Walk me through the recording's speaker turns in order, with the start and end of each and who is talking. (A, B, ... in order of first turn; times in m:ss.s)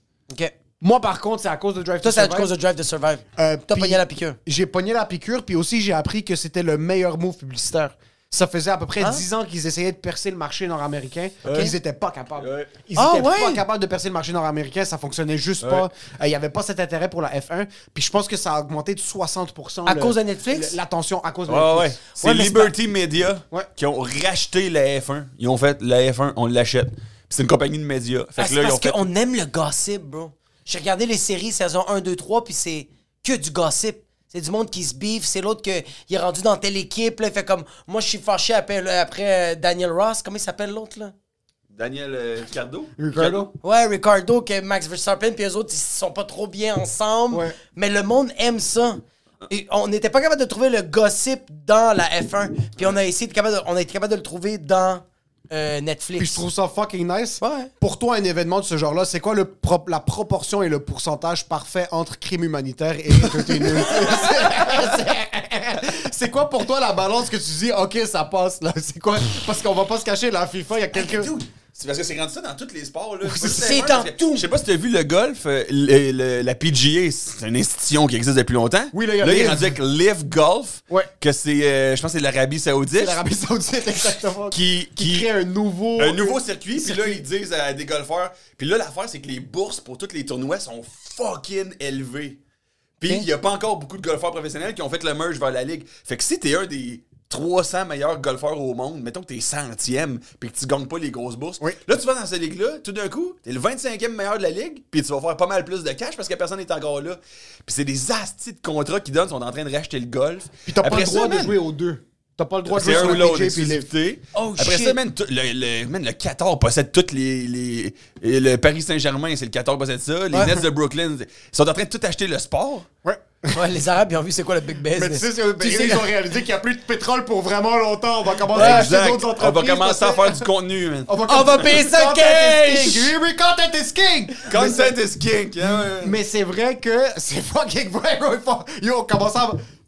0:00.3-0:00.6 A
0:00.8-0:02.5 B
0:02.0-0:04.4 A
0:03.4-0:22.0 B
0:11.4-0:11.7 C
0:12.4-0:12.7 C
0:13.0-0:13.6 A
0:15.6-0:15.9 C
0:19.8-0:20.7 A
0:21.5-0:29.0 C
0:22.2-0:22.7 A
0:28.4-0:41.1 A
0:41.7-0:43.5 C
0:43.0-0:43.5 B
0:43.6-0:56.4 A
0:47.3-0:47.6 B
0:56.2-1:11.3 B
0:57.4-0:57.7 A
1:03.3-1:04.7 C
1:10.9-1:23.2 C
1:13.3-1:13.8 B
1:13.4-1:14.5 A
1:18.9-1:19.8 B
1:22.9-1:27.2 B
1:24.5-1:25.3 C
1:26.0-1:32.4 C
1:33.0-1:51.5 C
1:50.6-1:53.9 B
1:52.7-2:02.9 C
1:54.3-1:55.0 A
2:00.3-2:00.6 B
2:03.0-2:03.6 B
2:03.5-2:06.1 A
2:04.9-2:10.5 B
2:08.5-2:11.1 C
2:08.5-2:08.8 A
2:11.0-2:14.9 B
2:11.2-2:13.1 A
2:14.5-2:16.2 C
2:15.7-2:19.6 B